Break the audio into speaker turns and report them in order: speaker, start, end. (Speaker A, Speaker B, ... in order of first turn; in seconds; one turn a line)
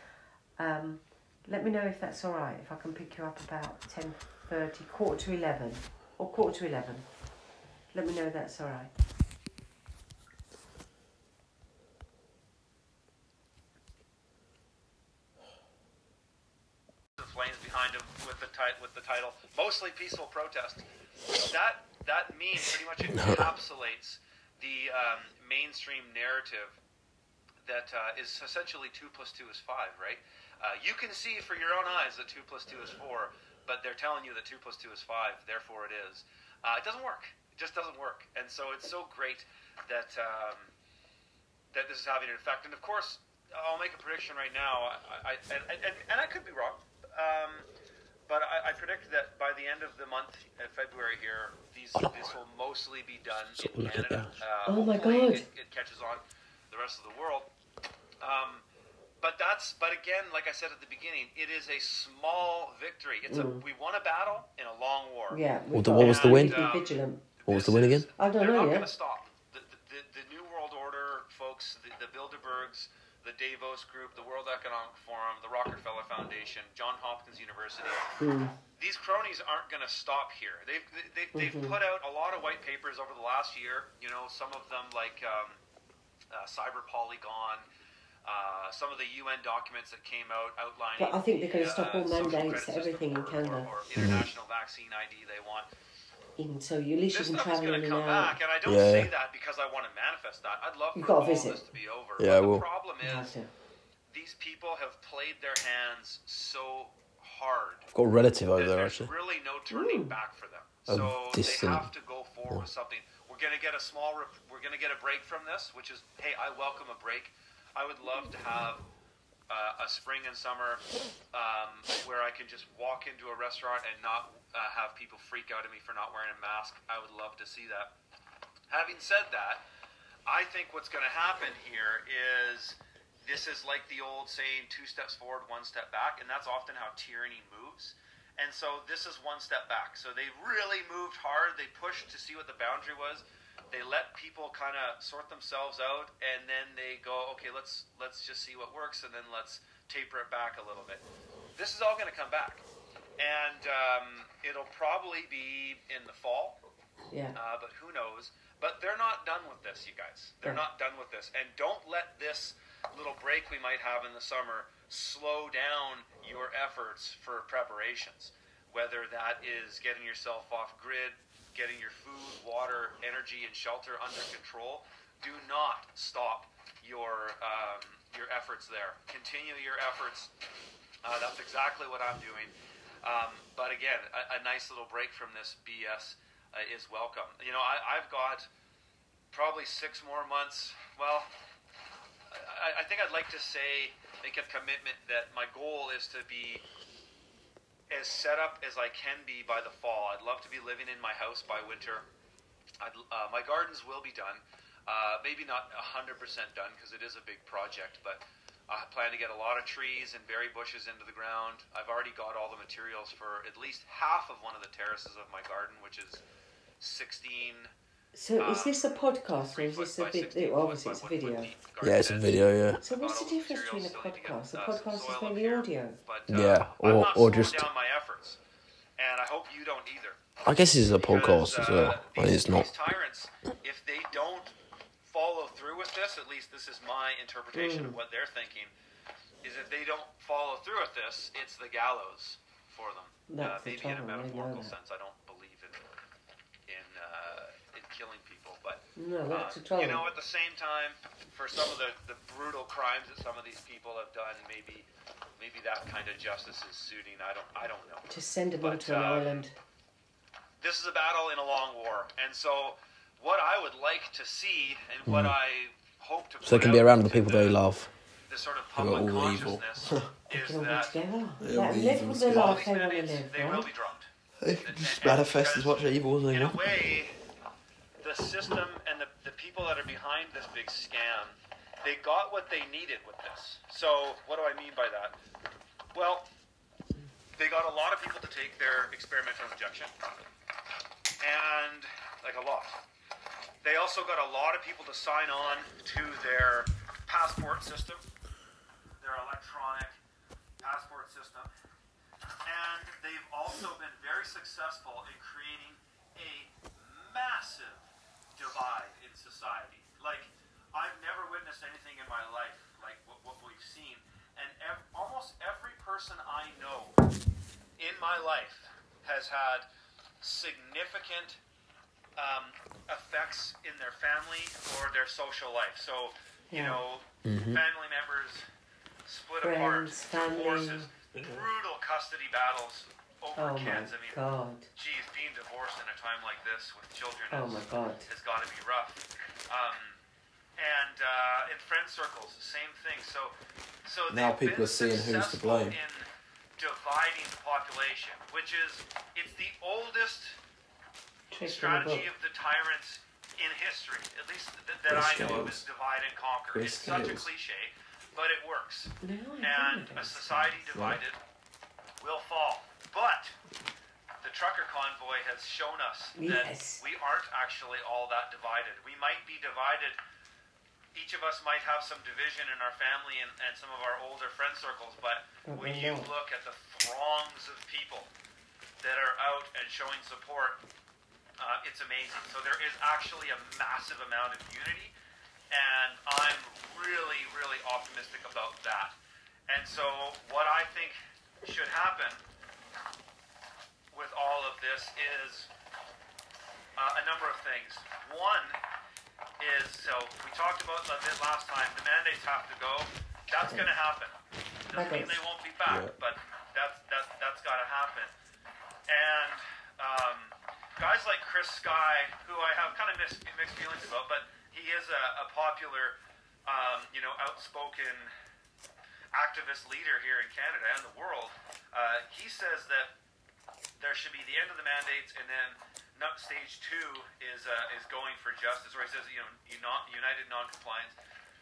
Speaker A: 0.6-7.1
Speaker A: 7.9-8.9
Speaker B: 17.2-20.9
Speaker B: 21.4-26.8
Speaker C: 23.1-23.5
Speaker B: 27.6-40.7
Speaker B: 41.7-47.7
Speaker B: 48.3-57.5
Speaker C: 53.6-54.4
Speaker A: 54.7-55.5
Speaker B: 58.2-58.6
Speaker B: 59.2-65.4
Speaker A: 63.3-63.6
Speaker A: 65.3-67.2
Speaker C: 65.7-66.6
Speaker B: 66.0-78.1
Speaker C: 67.5-68.1
Speaker A: 68.2-68.9
Speaker A: 78.2-78.5
Speaker B: 78.8-85.6
Speaker A: 81.3-81.8
Speaker B: 86.3-87.6
Speaker B: 88.2-95.7
Speaker A: 91.0-93.7
Speaker C: 94.0-94.3
Speaker A: 96.4-98.4
Speaker B: 97.1-103.3
Speaker C: 98.7-99.1
Speaker A: 101.0-101.6
Speaker C: 102.2-102.7
Speaker A: 103.0-103.5
Speaker B: 104.1-107.9
Speaker C: 107.9-109.1
Speaker B: 108.5-118.8
Speaker A: 109.7-110.1
Speaker C: 110.9-111.9
Speaker B: 119.5-127.9
Speaker B: 128.7-129.6
Speaker B: 130.3-151.0
Speaker B: 151.6-152.6
Speaker B: 153.2-156.6
Speaker A: 157.1-157.4
Speaker B: 157.3-180.3
Speaker B: 181.0-182.5
Speaker B: 183.0-188.5
Speaker B: 189.3-191.3
Speaker B: 192.3-196.6
Speaker B: 197.9-202.1
Speaker B: 202.8-216.2
Speaker B: 216.8-217.7
Speaker A: 218.1-221.5
Speaker B: 218.4-228.4
Speaker C: 221.8-222.8
Speaker A: 222.8-226.0
Speaker C: 226.3-227.7
Speaker B: 229.0-230.2
Speaker C: 230.4-232.7
Speaker B: 230.9-238.7
Speaker A: 237.5-238.0
Speaker B: 239.4-245.8
Speaker A: 243.3-244.7
Speaker B: 246.7-254.9
Speaker A: 249.0-250.1
Speaker B: 255.4-259.5
Speaker A: 258.1-259.5
Speaker B: 260.6-267.6
Speaker C: 265.1-265.4
Speaker C: 266.4-267.9
Speaker B: 268.3-271.0
Speaker C: 268.8-270.1
Speaker A: 270.3-273.7
Speaker C: 271.4-272.6
Speaker B: 272.2-274.1
Speaker C: 274.4-276.6
Speaker B: 274.6-277.1
Speaker B: 278.0-285.1
Speaker B: 285.9-286.3
Speaker B: 287.4-289.9
Speaker B: 291.2-292.8
Speaker B: 293.6-298.0
Speaker B: 299.0-300.0
Speaker B: 300.6-301.5
Speaker B: 302.4-317.0
Speaker B: 317.8-319.7
Speaker B: 320.2-321.4
Speaker B: 322.2-328.4
Speaker A: 326.5-326.8
Speaker C: 327.2-327.6
Speaker B: 329.1-334.2
Speaker A: 329.4-330.9
Speaker A: 333.4-334.7
Speaker B: 334.8-340.0
Speaker A: 337.3-338.1
Speaker B: 340.6-343.3
Speaker B: 343.9-350.4
Speaker C: 344.1-345.8
Speaker A: 351.3-352.1
Speaker B: 351.4-361.2
Speaker C: 354.9-355.6
Speaker C: 356.5-357.3
Speaker A: 359.0-360.6
Speaker B: 362.0-363.3
Speaker B: 364.2-370.0
Speaker A: 366.2-366.8
Speaker B: 370.9-378.1
Speaker A: 375.4-376.1
Speaker B: 378.8-380.6
Speaker B: 381.4-384.9
Speaker B: 385.5-389.0
Speaker B: 389.5-392.2
Speaker B: 393.9-395.5
Speaker B: 396.8-398.6
Speaker B: 399.4-404.2
Speaker B: 404.7-408.1
Speaker A: 404.7-405.2
Speaker C: 405.7-405.9
Speaker B: 408.9-418.1
Speaker B: 419.1-422.9
Speaker B: 423.8-430.9